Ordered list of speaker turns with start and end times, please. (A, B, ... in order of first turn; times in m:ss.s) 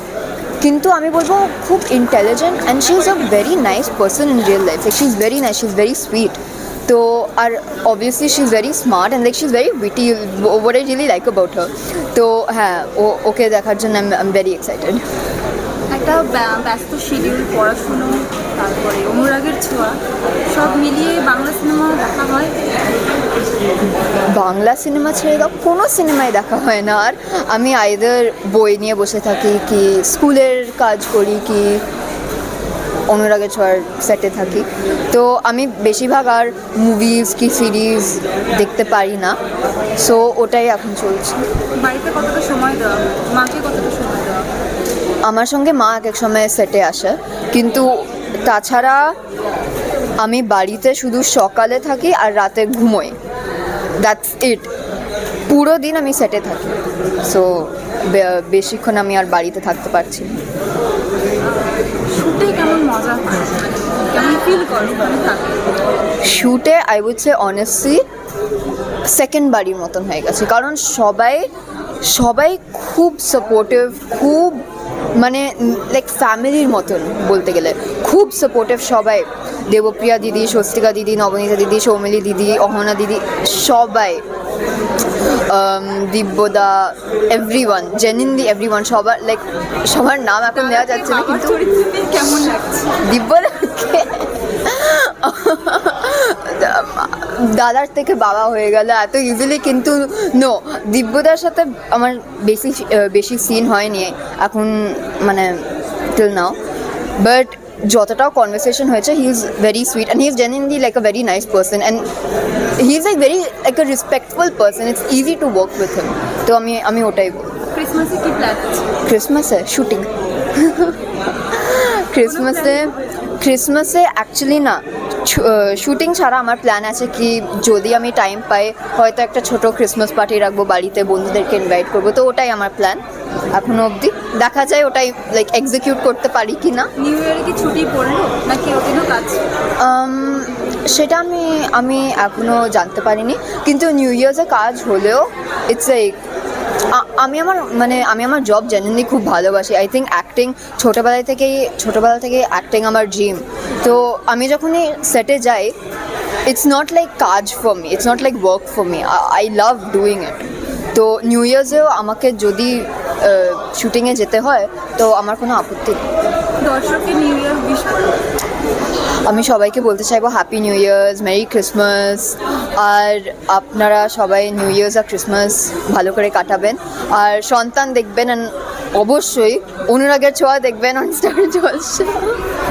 0:00.6-0:15.0 A
0:15.9-0:20.0 B
0:20.5-0:22.7 B
0:24.3-0:31.8 A
0:33.1-0:39.4 A
0:40.0-0:41.4 A
0:41.8-0:44.5 B
0:45.2-0:49.1 A
0:50.2-0:53.2 A
0:54.0-0:54.7 A
0:55.5-1:00.4 A
1:01.4-1:05.8 B
1:06.2-1:08.0 A
1:09.1-1:11.5 A
1:12.0-1:24.2 A
1:25.3-1:31.6 A
1:30.5-1:33.0 B
1:33.0-1:46.6 A
1:47.2-1:52.1 A
1:52.8-1:57.6 A
1:57.7-1:58.9 B
1:59.0-2:13.0 A
2:02.2-2:03.1 B
2:13.5-2:16.9 A
2:17.0-2:19.4 B
2:19.8-2:26.2 A
2:26.9-2:35.7 A
2:36.4-2:46.0 A
2:46.6-2:48.2 B
2:49.2-3:02.4 A